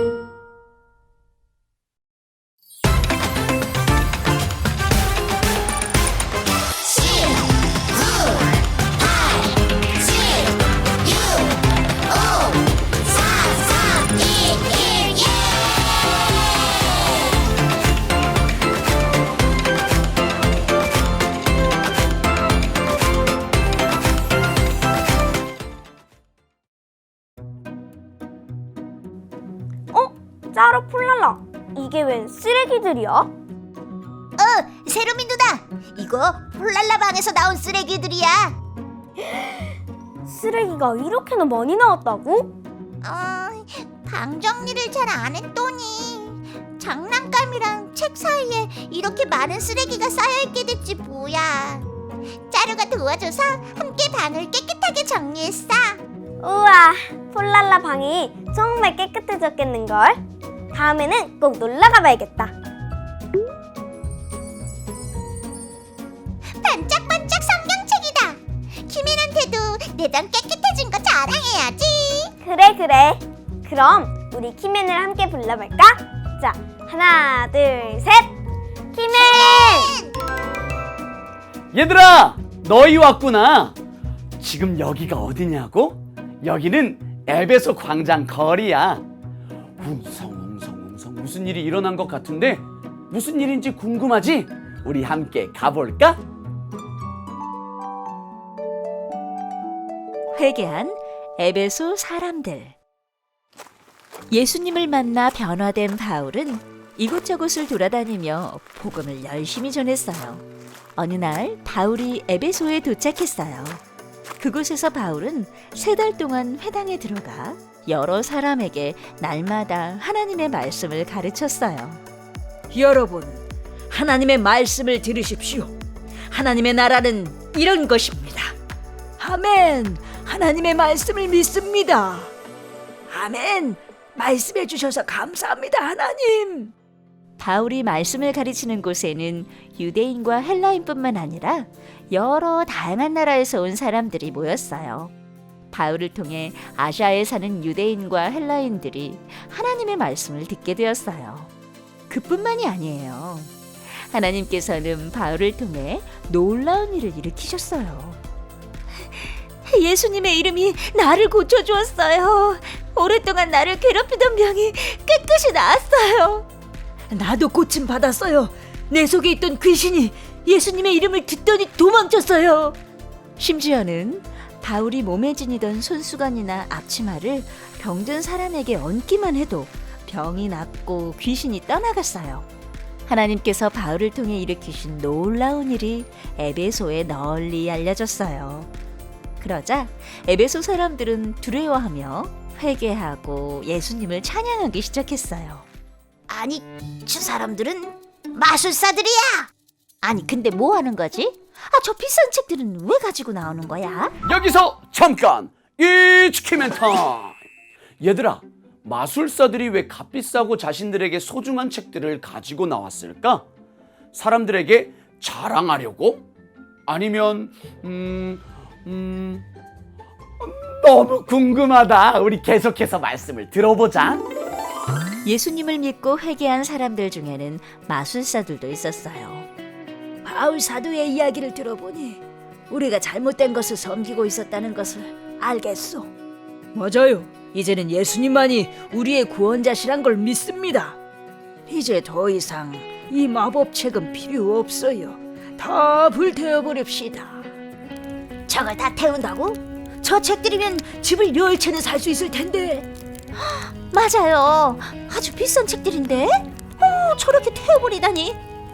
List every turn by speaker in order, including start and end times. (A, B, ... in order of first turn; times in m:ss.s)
0:06.9-0:07.4 A
0:08.0-0:08.3 A
0:09.0-0:09.5 A
0:10.0-0:10.5 A
0:11.0-0:11.5 A
0:12.1-0:15.6 A
0:29.9-0:33.3 B
0:34.4-0:38.5 A
0:40.3-0:42.5 B
0:43.0-0:51.8 A
0:52.5-0:56.0 A
0:56.4-1:00.2 B
1:00.7-1:02.5 B
1:06.6-1:12.3 A
1:12.4-1:18.3 B
1:18.9-1:19.9 B
1:19.1-1:20.1 A
1:21.7-1:23.8 C
1:24.4-1:29.0 C
1:29.8-1:36.2 C
1:40.3-1:42.8 D
1:44.3-1:50.4 D
1:51.0-1:53.8 D
1:54.4-2:02.0 D
2:02.7-2:03.4 E
2:03.9-2:05.7 E
2:06.3-2:08.3 E
2:09.2-2:12.3 E
2:13.1-2:16.7 E
2:17.4-2:25.1 D
2:25.7-2:31.5 D
2:32.1-2:38.2 D
2:39.1-2:46.4 D
2:47.1-2:52.6 E
2:53.4-3:02.4 D
3:03.1-3:08.7 D
3:09.4-3:15.6 D
3:16.3-3:19.2 D
3:20.0-3:24.1 D
3:24.2-3:27.3 C
3:28.0-3:33.4 C
3:34.1-3:36.2 C
3:36.9-3:39.4 C
3:40.4-3:44.2 C
3:45.2-3:49.5 D
3:50.3-3:52.2 E
3:52.7-3:56.0 E
3:54.3-3:55.0 D
3:56.8-4:00.9 E
4:01.7-4:07.2 E
4:08.5-4:10.8 D
4:10.1-4:12.8 E
4:13.4-4:18.4 D